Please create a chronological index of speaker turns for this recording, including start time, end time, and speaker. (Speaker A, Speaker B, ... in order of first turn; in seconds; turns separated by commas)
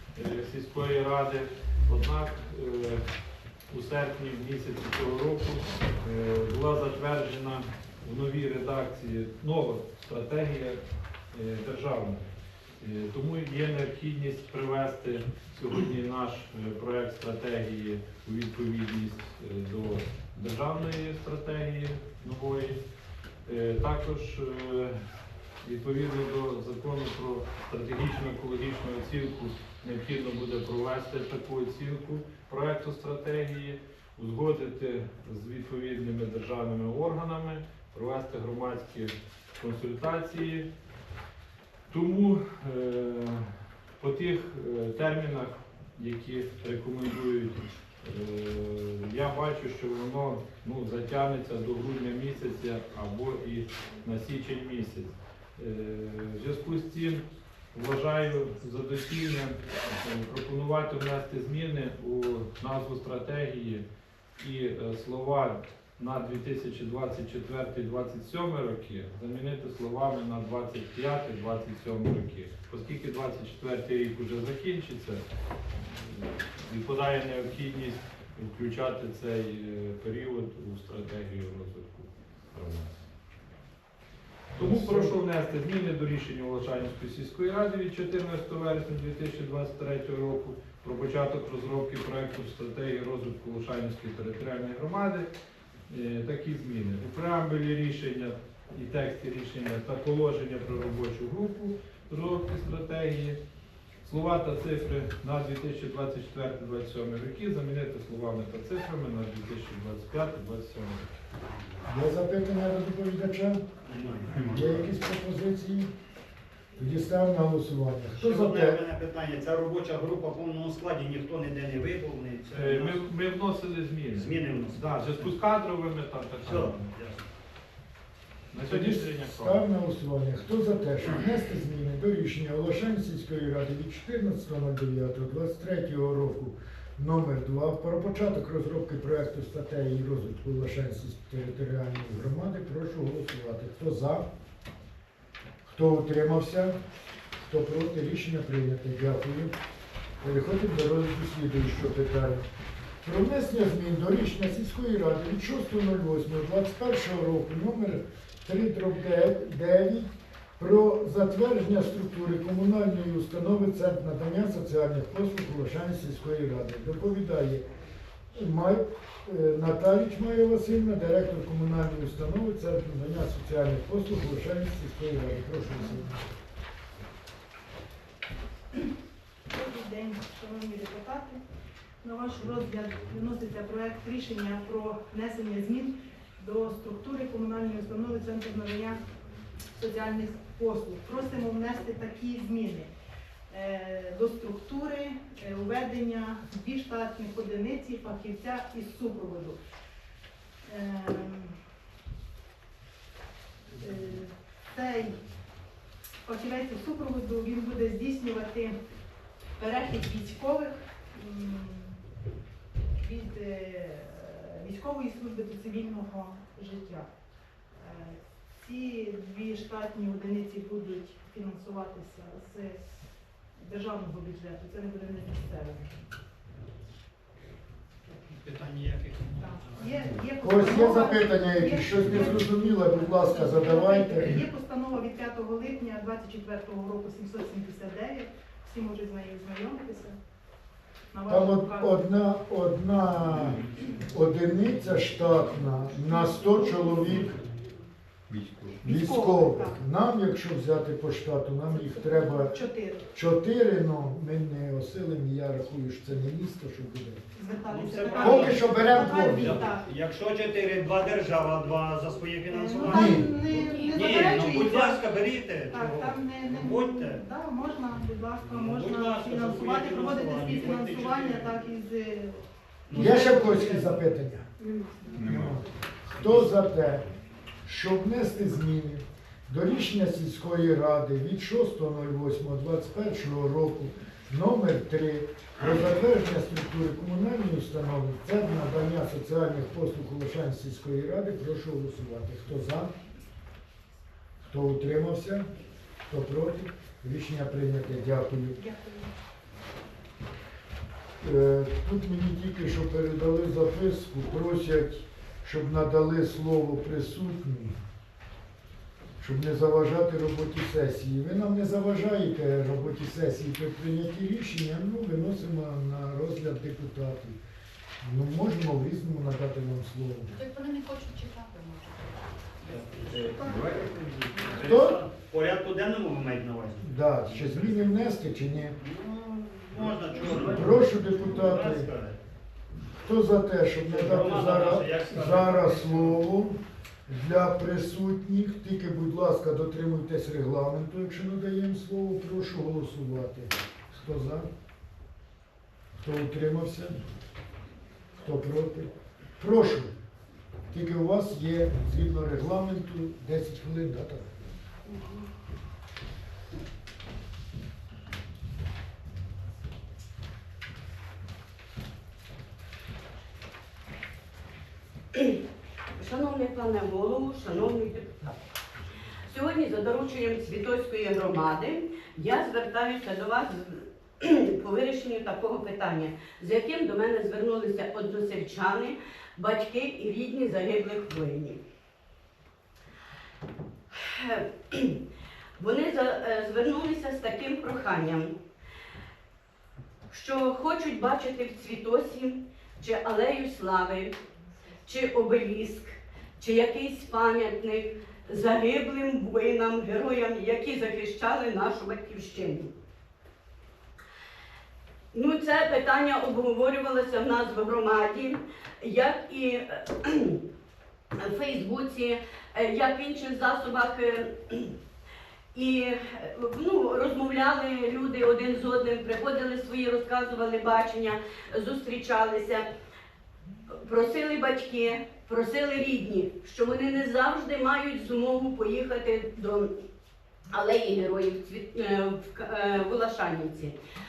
Speaker A: 0.1-3.0, Speaker A: 3.7-10.8, Speaker A: 11.3-12.3, Speaker A: 12.8-22.8, Speaker A: 23.4-25.0, Speaker A: 25.6-40.7, Speaker A: 41.9-63.9, Speaker A: 64.4-75.2, Speaker A: 75.8-83.1, Speaker B: 84.5-85.2, Speaker A: 84.6-95.3, Speaker A: 95.9-103.4, Speaker A: 104.0-111.1, Speaker C: 111.5-111.8, Speaker B: 111.8-113.6, Speaker C: 113.8-114.9, Speaker B: 114.3-115.9, Speaker B: 116.8-118.8, Speaker C: 118.2-123.0, Speaker A: 122.5-126.9, Speaker C: 124.1-125.3, Speaker C: 126.4-127.2, Speaker A: 128.5-129.6, Speaker B: 128.6-144.3, Speaker B: 145.7-146.8, Speaker B: 147.4-149.5, Speaker B: 150.2-152.4, Speaker B: 153.0-167.7, Speaker B: 168.3-176.3, Speaker D: 179.5-181.4, Speaker D: 182.0-189.0, Speaker D: 189.7-192.9, Speaker D: 193.5-199.6, Speaker D: 200.7-201.6, Speaker D: 203.8-205.2, Speaker D: 206.2-208.8, Speaker D: 209.6-212.0, Speaker D: 213.0-217.1, Speaker D: 217.7-222.8, Speaker D: 223.6-225.9, Speaker C: 228.2-229.9, Speaker D: 229.4-240.2, Speaker B: 230.4-234.4, Speaker D: 241.1-242.0, Speaker B: 241.3-247.4, Speaker D: 246.0-247.2, Speaker A: 248.3-248.8, Speaker B: 248.8-252.6, Speaker D: 248.8-249.8, Speaker D: 251.7-253.1, Speaker B: 253.1-257.2, Speaker D: 257.4-259.9, Speaker C: 257.7-267.2, Speaker B: 258.2-259.6, Speaker D: 262.5-274.0, Speaker B: 262.8-263.3, Speaker E: 263.5-264.5, Speaker C: 268.4-271.6, Speaker C: 272.9-273.6, Speaker B: 272.9-274.5, Speaker D: 274.6-275.6, Speaker B: 275.2-277.1, Speaker B: 277.6-292.9, Speaker B: 294.5-295.5, Speaker B: 296.1-298.6, Speaker D: 298.6-299.1, Speaker B: 301.2-307.8, Speaker B: 309.2-317.4, Speaker B: 318.0-320.4, Speaker E: 320.3-322.8, Speaker C: 322.7-328.1, Speaker A: 323.1-323.9, Speaker D: 323.1-324.4, Speaker B: 324.6-325.0, Speaker B: 326.8-328.8, Speaker C: 328.8-332.2, Speaker B: 330.3-331.9, Speaker B: 333.0-344.5, Speaker C: 333.8-336.2, Speaker B: 346.0-347.0, Speaker B: 348.2-349.9, Speaker B: 350.7-354.4, Speaker F: 366.0-368.4, Speaker F: 369.3-381.6, Speaker F: 383.9-385.0, Speaker F: 385.6-388.3, Speaker F: 390.1-394.1, Speaker F: 394.9-402.7, Speaker F: 405.1-410.4, Speaker F: 411.2-414.7, Speaker F: 415.5-422.7, Speaker F: 423.7-429.7, Speaker F: 430.5-433.8